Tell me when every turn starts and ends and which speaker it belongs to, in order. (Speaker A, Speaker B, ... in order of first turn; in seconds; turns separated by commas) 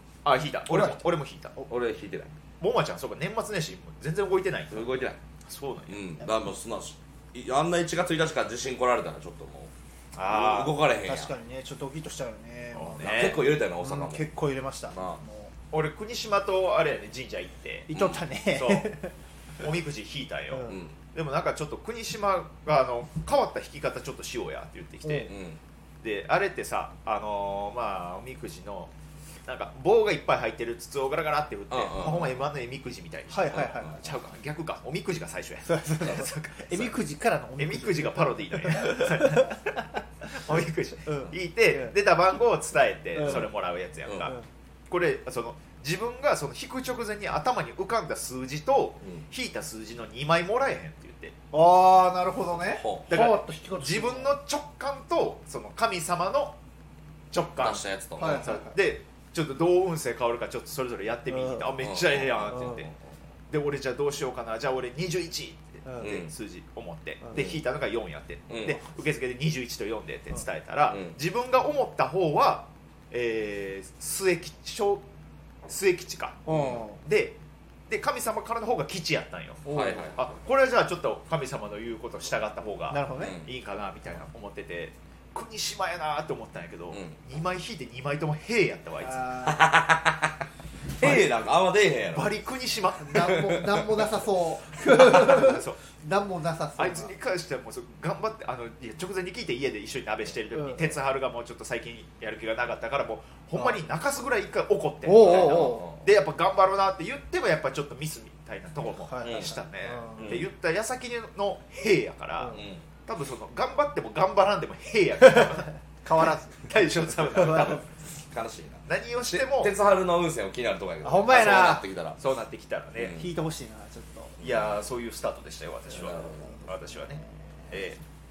Speaker A: 0.2-1.6, Speaker B: 0.7-1.1, Speaker C: 1.7-2.3, Speaker A: 2.6-6.0, Speaker C: 4.7-5.2, Speaker C: 5.9-9.7, Speaker A: 10.1-10.8, Speaker C: 10.3-11.3, Speaker B: 11.0-15.5, Speaker A: 12.7-13.5, Speaker C: 13.0-14.3, Speaker C: 14.9-15.2, Speaker A: 15.7-17.9, Speaker B: 17.9-19.1, Speaker C: 17.9-18.2, Speaker A: 18.5-18.9, Speaker A: 19.6-25.3, Speaker B: 20.5-20.8, Speaker C: 20.7-20.9, Speaker C: 25.2-25.6, Speaker A: 26.0-28.9, Speaker A: 29.4-36.9, Speaker C: 31.7-32.3, Speaker B: 33.3-34.0, Speaker C: 33.5-34.0, Speaker B: 35.6-39.6, Speaker A: 37.6-44.4, Speaker B: 41.0-41.9, Speaker B: 43.2-43.4, Speaker C: 44.0-44.3, Speaker A: 44.9-51.3, Speaker B: 51.5-54.4, Speaker C: 52.7-53.3, Speaker A: 53.1-56.5, Speaker A: 57.3-62.9, Speaker C: 57.5-58.5, Speaker B: 58.2-58.8, Speaker B: 61.3-61.7, Speaker C: 61.8-62.9, Speaker B: 62.5-62.8, Speaker A: 63.5-75.0, Speaker B: 65.8-66.2, Speaker C: 66.0-66.3, Speaker C: 68.5-68.8, Speaker C: 70.9-71.1, Speaker A: 75.7-77.4, Speaker B: 76.5-77.0, Speaker C: 76.5-76.8, Speaker A: 77.9-89.3, Speaker B: 79.6-80.0, Speaker C: 79.7-80.2, Speaker B: 82.9-83.4, Speaker C: 83.2-83.5, Speaker C: 86.9-87.2, Speaker B: 89.0-89.7, Speaker C: 89.4-90.4, Speaker C: 91.0-92.3, Speaker A: 91.0-91.3, Speaker A: 92.1-93.3, Speaker B: 93.0-97.1, Speaker C: 93.2-94.0, Speaker A: 94.9-95.8, Speaker A: 96.8-115.7, Speaker B: 100.5-100.9, Speaker B: 105.0-105.9, Speaker C: 105.2-106.0, Speaker B: 109.0-110.4, Speaker C: 109.2-109.6, Speaker C: 110.2-110.5, Speaker C: 112.5-112.8, Speaker B: 116.0-116.7, Speaker A: 116.6-117.9, Speaker B: 117.3-117.8, Speaker C: 117.4-117.7, Speaker C: 118.3-122.2, Speaker A: 118.9-119.7, Speaker B: 121.0-121.8, Speaker A: 122.2-123.2, Speaker C: 123.0-123.3, Speaker B: 123.1-124.4, Speaker A: 124.4-128.0, Speaker C: 125.9-126.5, Speaker B: 126.1-127.5